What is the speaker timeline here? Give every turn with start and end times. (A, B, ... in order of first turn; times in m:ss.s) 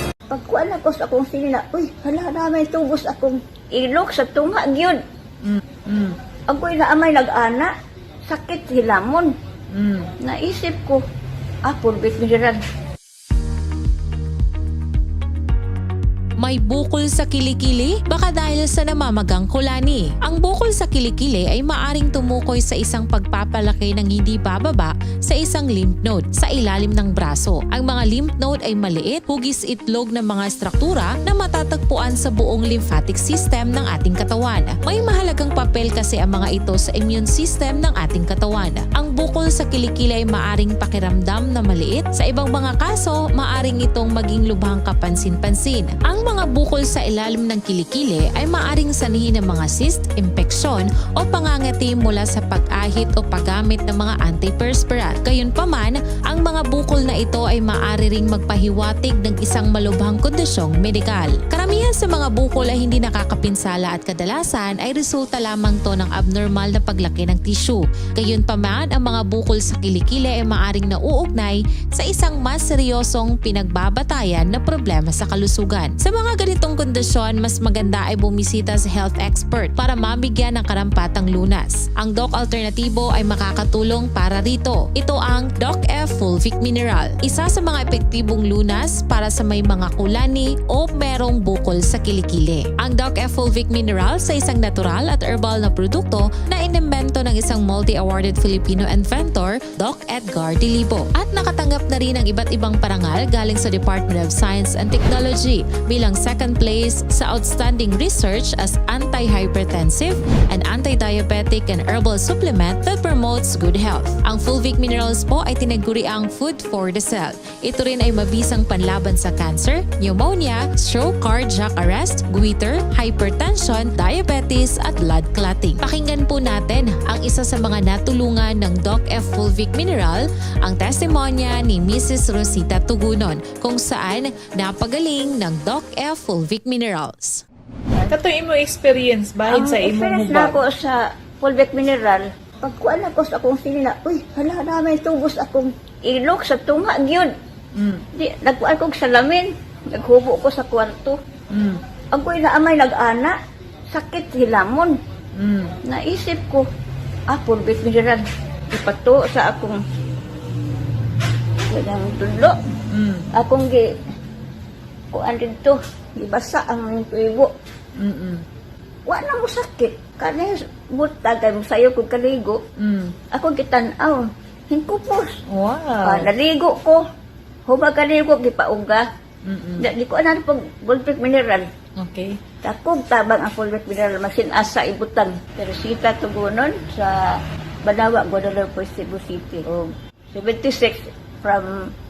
0:00.3-0:05.0 A
0:05.4-0:06.2 B
0:06.5-0:07.7 A
0:08.3-0:09.3 A
0:09.7-0:10.1 B
0:10.2-0:11.0 A
0:11.7-0:12.6 A
0:16.4-2:17.4 C
2:18.1-2:20.6 B
2:19.5-2:27.3 A
2:27.8-2:28.0 B
2:28.2-2:31.2 A
2:31.5-2:31.8 B
2:32.1-2:33.3 A
2:33.9-2:35.0 A
2:35.4-2:35.8 B
2:35.9-2:36.6 A
2:37.3-2:39.8 A
2:41.7-2:42.6 A
2:42.9-2:43.3 B
2:43.3-2:43.9 A
2:45.1-2:47.5 A
2:48.0-2:48.4 B
2:49.1-2:52.6 A
2:52.8-2:53.2 B
2:53.3-2:55.3 A
2:55.5-2:56.3 B
2:56.0-2:57.0 A
2:57.7-2:59.0 A
2:59.4-2:59.9 B
2:59.8-3:01.7 A
3:02.0-3:02.4 B
3:02.6-3:07.2 A
3:07.8-3:11.7 A